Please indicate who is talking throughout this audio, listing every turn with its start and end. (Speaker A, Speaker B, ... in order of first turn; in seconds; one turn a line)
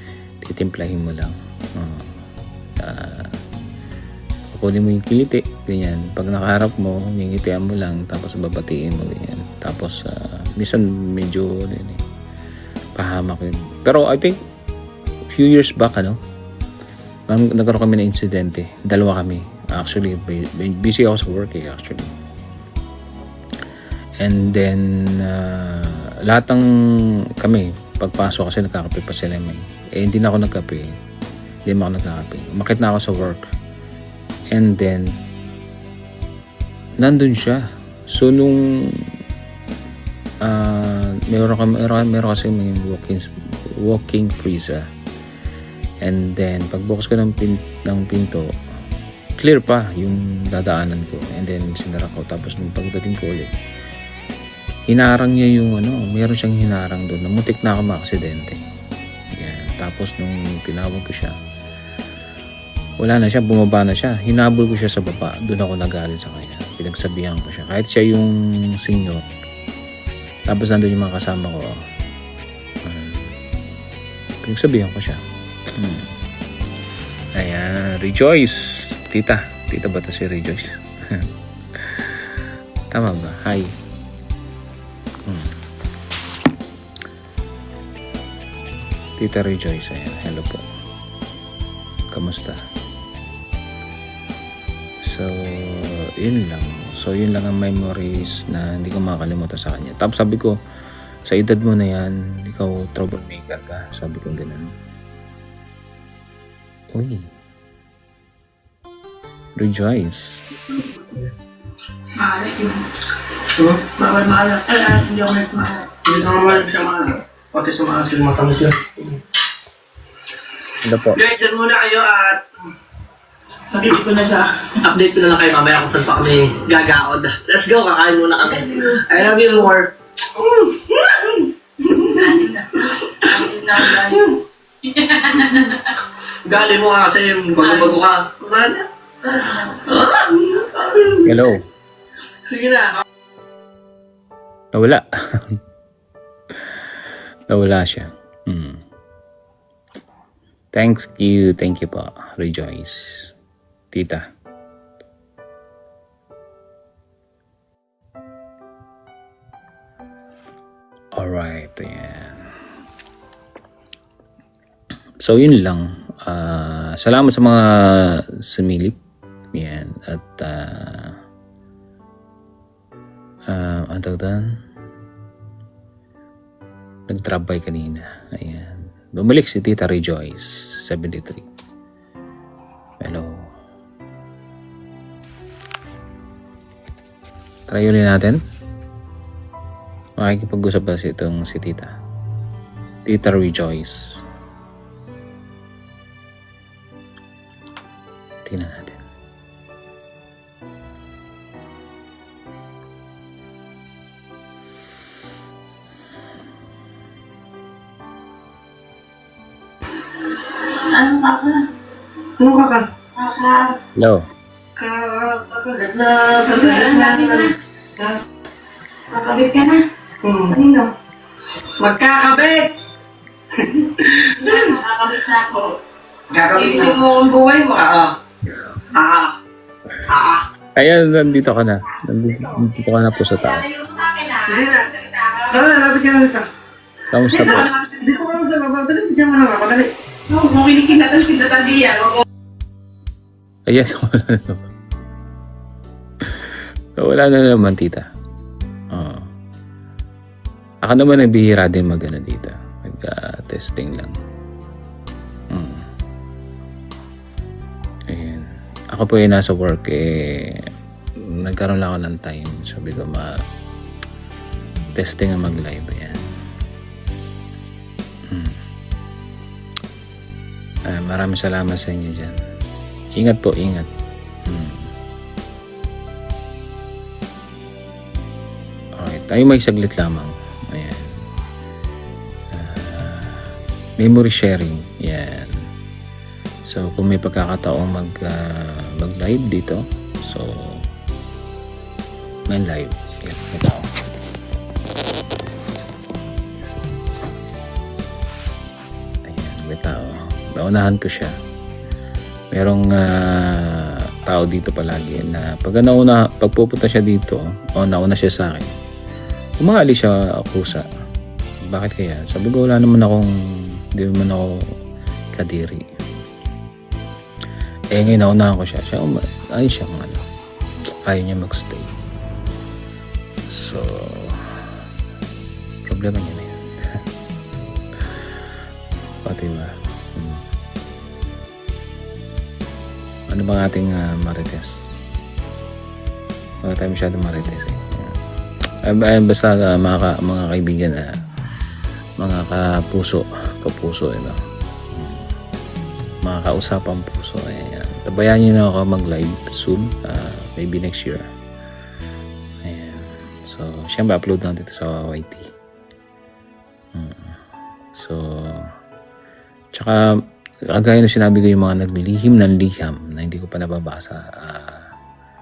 Speaker A: 0.4-2.2
Speaker A: 2.8-3.4
Speaker A: 4.5-12.0
Speaker A: 13.0-14.4
Speaker A: 15.3-16.2
Speaker A: 17.3-22.1
Speaker A: 24.2-26.6
Speaker A: 27.4-30.9
Speaker A: 31.6-33.5
Speaker A: 34.5-35.1
Speaker A: 37.0-39.1
Speaker A: 40.4-44.8
Speaker A: 46.0-48.5
Speaker A: 49.4-53.5
Speaker A: 54.9-58.6
Speaker A: 59.4-61.3
Speaker A: 63.0-69.2
Speaker A: 70.5-71.8
Speaker A: 72.8-73.3
Speaker A: 74.4-75.2
Speaker A: 75.8-76.1
Speaker A: 77.3-81.2
Speaker A: 81.8-82.3
Speaker A: 82.9-83.7
Speaker A: 85.2-85.5
Speaker A: 89.2-90.6
Speaker A: 92.1-92.6
Speaker A: 95.0-100.5
Speaker A: 101.2-104.7
Speaker A: 106.9-107.3
Speaker A: 109.5-110.4
Speaker B: 110.8-111.3
Speaker C: 112.2-112.8
Speaker B: 113.5-114.0
Speaker C: 114.0-115.9
Speaker B: 116.0-119.2
Speaker A: 116.3-116.7
Speaker A: 120.8-121.2
Speaker B: 121.1-122.4
Speaker C: 123.7-124.5
Speaker B: 124.8-132.3
Speaker C: 128.4-129.5
Speaker C: 132.0-135.9
Speaker B: 132.8-134.3
Speaker B: 136.4-141.4
Speaker C: 137.6-137.9
Speaker C: 139.2-139.9
Speaker A: 141.2-141.6
Speaker B: 142.5-143.0
Speaker A: 144.7-145.0
Speaker A: 146.6-146.8
Speaker A: 147.5-148.8
Speaker A: 150.7-153.3
Speaker A: 153.9-154.2
Speaker A: 161.2-162.5
Speaker A: 165.2-169.0
Speaker A: 169.5-171.2
Speaker A: 173.5-174.4
Speaker A: 177.1-181.4
Speaker A: 183.0-183.3
Speaker A: 187.7-188.4
Speaker A: 190.2-191.9
Speaker A: 193.1-194.2
Speaker A: 198.4-199.0
Speaker C: 210.5-211.7
Speaker B: 212.4-212.8
Speaker C: 213.1-213.8
Speaker A: 213.9-214.2
Speaker B: 214.8-218.2
Speaker C: 216.5-217.5
Speaker C: 219.1-219.8
Speaker B: 220.2-220.6
Speaker C: 220.5-220.9
Speaker B: 221.8-222.7
Speaker B: 223.6-224.8
Speaker C: 224.4-225.8
Speaker B: 226.3-227.0
Speaker C: 226.5-227.9
Speaker B: 227.7-228.1
Speaker B: 228.9-229.3
Speaker B: 230.1-230.4
Speaker A: 230.8-233.8
Speaker C: 233.3-235.6
Speaker B: 234.4-234.9
Speaker B: 235.5-236.4
Speaker A: 237.1-237.7
Speaker C: 237.3-238.0
Speaker B: 238.0-239.9
Speaker C: 240.3-242.2
Speaker A: 243.7-244.6
Speaker A: 246.2-248.0
Speaker A: 248.9-249.3
Speaker A: 250.8-254.1
Speaker A: 255.5-255.8
Speaker A: 258.1-260.6
Speaker A: 261.2-263.3
Speaker A: 264.9-266.2
Speaker A: 268.3-268.6
Speaker A: 270.9-272.4
Speaker A: 273.1-273.9
Speaker A: 274.5-274.9
Speaker A: 279.0-281.1
Speaker A: 282.5-285.5
Speaker A: 286.7-290.8
Speaker A: 292.5-293.9
Speaker A: 299.2-301.3
Speaker A: 302.5-308.7
Speaker A: 309.6-310.9
Speaker A: 311.7-313.3
Speaker A: 313.9-314.6
Speaker A: 315.3-315.8
Speaker A: 317.9-320.2
Speaker A: 321.1-321.9
Speaker A: 323.5-324.6
Speaker A: 325.8-326.6
Speaker A: 329.2-330.4
Speaker A: 333.3-334.8
Speaker A: 336.6-338.1
Speaker A: 338.8-341.1
Speaker A: 342.2-344.4
Speaker A: 344.9-345.3
Speaker A: 346.2-351.2
Speaker A: 352.6-355.5
Speaker A: 356.9-357.4
Speaker A: 357.9-358.7
Speaker A: 359.7-360.1
Speaker A: 360.7-364.9